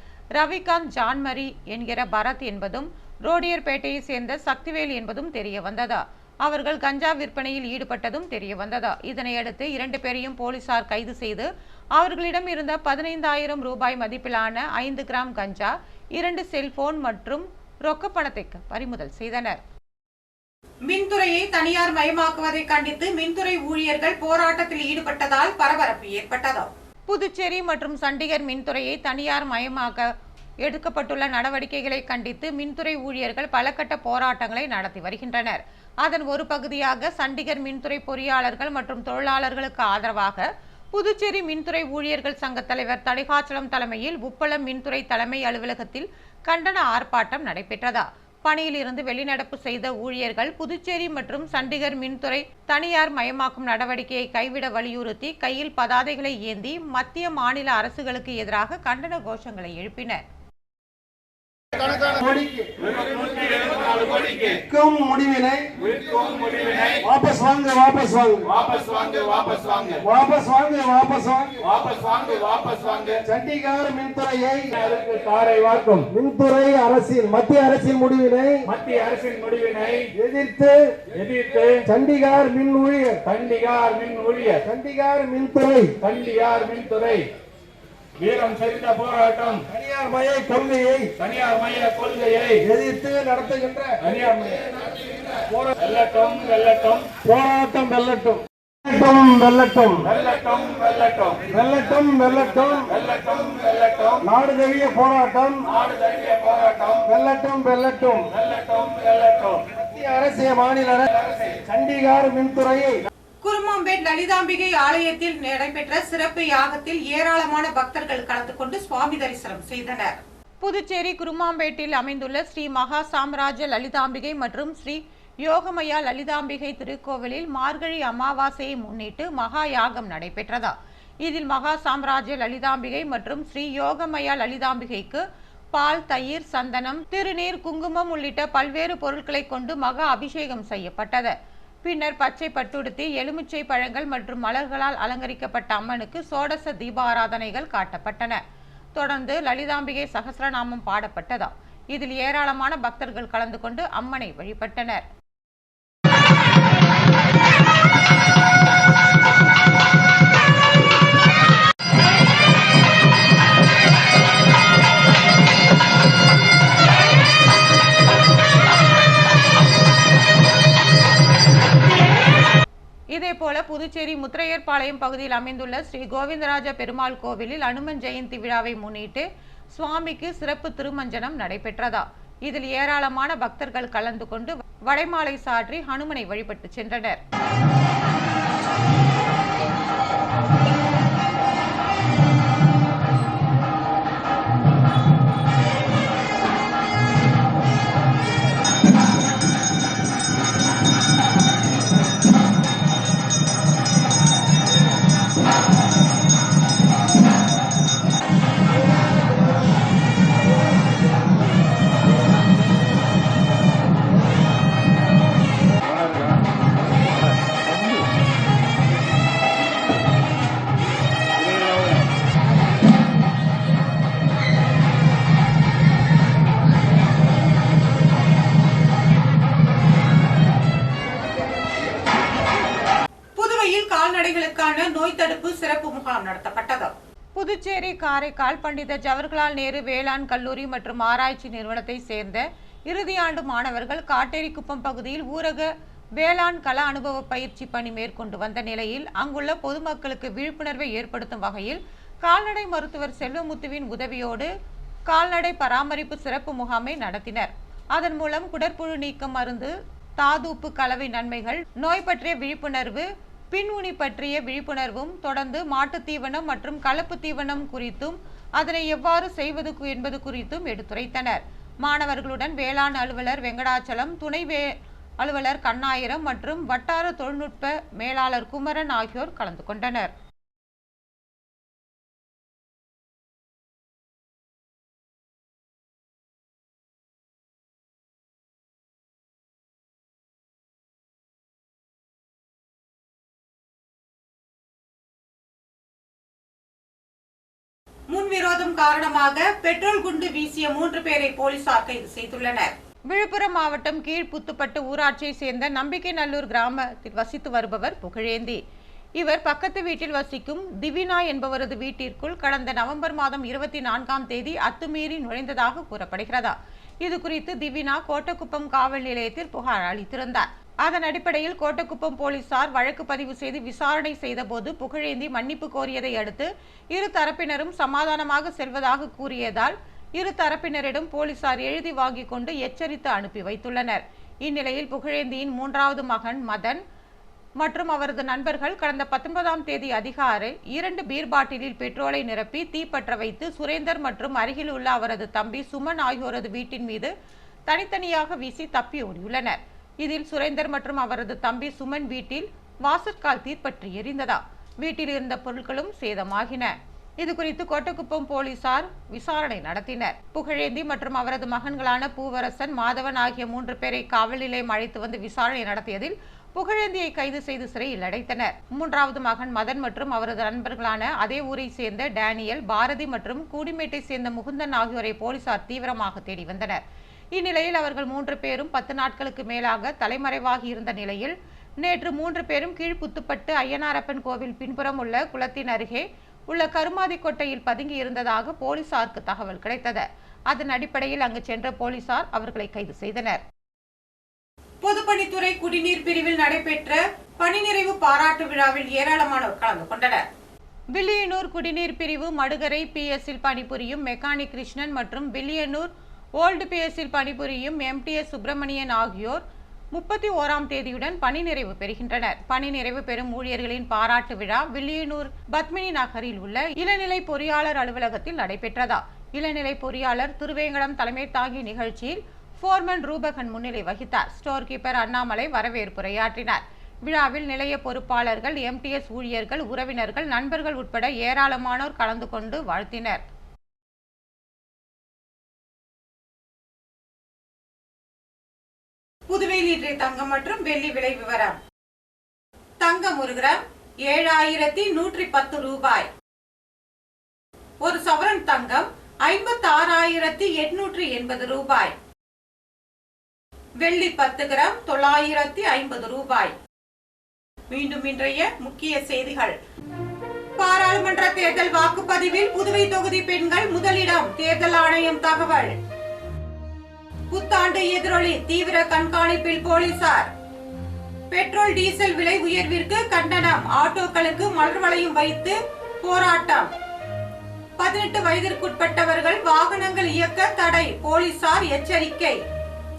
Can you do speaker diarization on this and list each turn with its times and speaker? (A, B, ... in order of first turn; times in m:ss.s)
0:00.4-0:19.6 A
0:20.9-0:30.1 A
0:30.6-1:00.2 A
1:02.0-1:02.8 B
1:02.9-1:04.6 C
1:04.5-1:05.7 B
1:05.8-1:07.0 C
1:07.0-1:08.5 B
1:08.5-1:10.0 C
1:10.0-1:11.6 B
1:11.6-1:13.2 C
1:13.2-1:14.8 B
1:14.8-1:16.1 C
1:16.0-1:18.6 B
1:18.7-1:20.1 C
1:20.1-1:21.0 B
1:21.1-1:21.8 C
1:21.8-1:23.2 B
1:23.3-1:24.6 C
1:24.6-1:26.0 B
1:26.0-1:27.3 C
1:28.2-1:29.6 C
1:29.7-1:31.1 B
1:31.2-1:32.6 C
1:32.6-1:34.0 B
1:34.0-1:34.6 C
1:35.8-1:37.2 C
1:37.1-1:40.1 B
1:40.0-1:41.5 C
1:41.4-1:42.9 B
1:42.9-1:44.2 C
1:44.2-1:45.7 B
1:45.7-1:47.0 C
1:47.0-1:48.3 B
1:48.4-1:49.6 C
1:49.7-1:53.0 B
1:53.4-2:28.4 A
2:29.0-2:35.1 A
2:53.1-3:07.2 A
3:53.4-4:14.5 A
4:15.1-4:40.1 A
4:58.1-5:08.6 A
5:09.2-5:36.8 A
5:37.6-5:47.1 A
5:47.7-6:16.8 A
6:17.4-6:33.4 A
6:34.8-6:40.2 A
6:41.0-7:13.2 A
7:19.3-7:21.6 A
7:22.8-7:26.1 A
7:27.8-7:32.0 A
7:33.8-7:36.6 A
7:37.7-7:39.6 A
7:40.6-7:45.7 A
7:47.3-7:50.3 A
7:51.3-7:56.7 A
7:57.8-8:02.4 A